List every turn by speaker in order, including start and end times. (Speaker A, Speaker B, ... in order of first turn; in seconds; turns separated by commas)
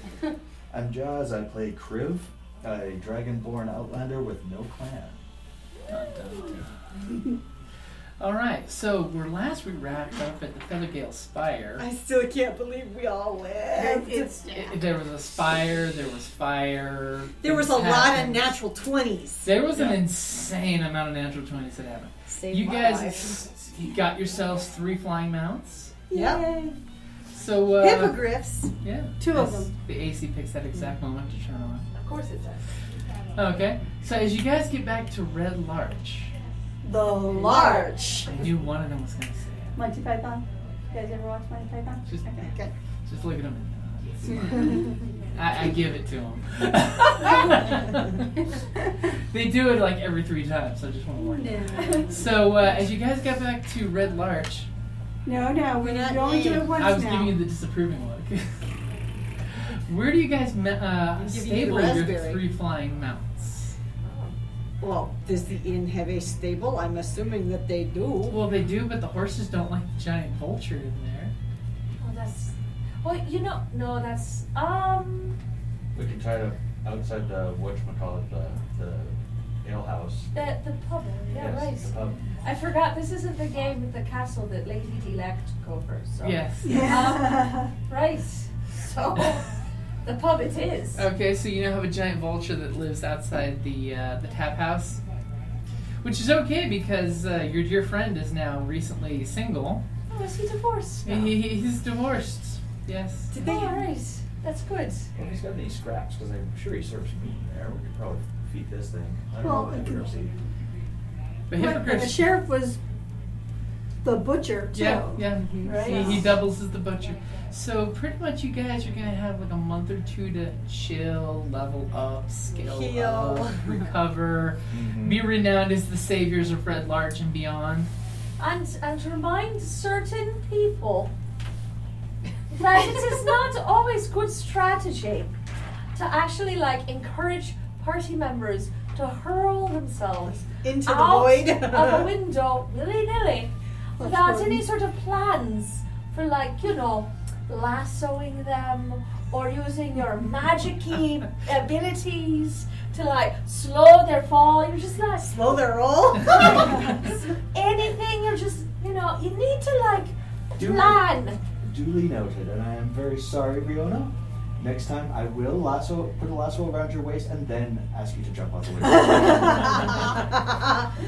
Speaker A: 0.7-5.2, Speaker B: 5.9-6.7, Speaker B: 8.2-11.8, Speaker C: 11.8-14.4, Speaker D: 13.7-14.7, Speaker B: 14.5-18.6, Speaker C: 17.4-19.6, Speaker B: 19.4-26.0, Speaker C: 22.3-23.5, Speaker D: 26.1-26.8, Speaker C: 26.1-26.6, Speaker B: 27.3-28.3, Speaker C: 27.8-28.7, Speaker B: 28.8-31.9, Speaker D: 29.2-29.7, Speaker E: 31.9-32.6, Speaker B: 33.4-36.3, Speaker D: 36.8-38.0, Speaker C: 37.3-38.3, Speaker E: 37.5-37.9, Speaker B: 38.3-39.8, Speaker D: 39.8-42.7, Speaker B: 43.0-44.8, Speaker B: 45.3-48.3, Speaker B: 49.3-54.7, Speaker D: 51.2-52.2, Speaker D: 55.2-57.4, Speaker C: 55.8-56.8, Speaker B: 56.7-58.6, Speaker B: 59.5-63.8, Speaker C: 61.2-62.4, Speaker E: 64.0-64.3, Speaker C: 64.8-68.4, Speaker B: 68.3-71.3, Speaker E: 72.0-75.4, Speaker A: 75.9-80.3, Speaker E: 80.3-91.0, Speaker A: 81.3-82.3, Speaker B: 86.2-87.0, Speaker D: 86.7-87.7, Speaker B: 91.0-95.0, Speaker B: 96.0-99.8, Speaker E: 100.1-101.3, Speaker B: 101.0-103.3, Speaker C: 103.3-103.9, Speaker E: 103.4-105.1, Speaker A: 105.2-110.3, Speaker D: 109.4-110.1, Speaker B: 111.5-112.3, Speaker D: 111.5-112.8, Speaker D: 114.0-115.2, Speaker B: 114.7-127.9, Speaker C: 115.5-116.2, Speaker E: 115.6-116.2, Speaker C: 122.6-123.9, Speaker A: 124.7-125.3, Speaker E: 128.4-131.1, Speaker E: 132.5-135.3, Speaker E: 135.9-155.6, Speaker C: 140.6-142.1, Speaker D: 144.0-144.7, Speaker C: 155.2-157.0, Speaker E: 156.2-161.4, Speaker A: 160.6-169.9, Speaker D: 168.9-169.7, Speaker C: 170.1-170.7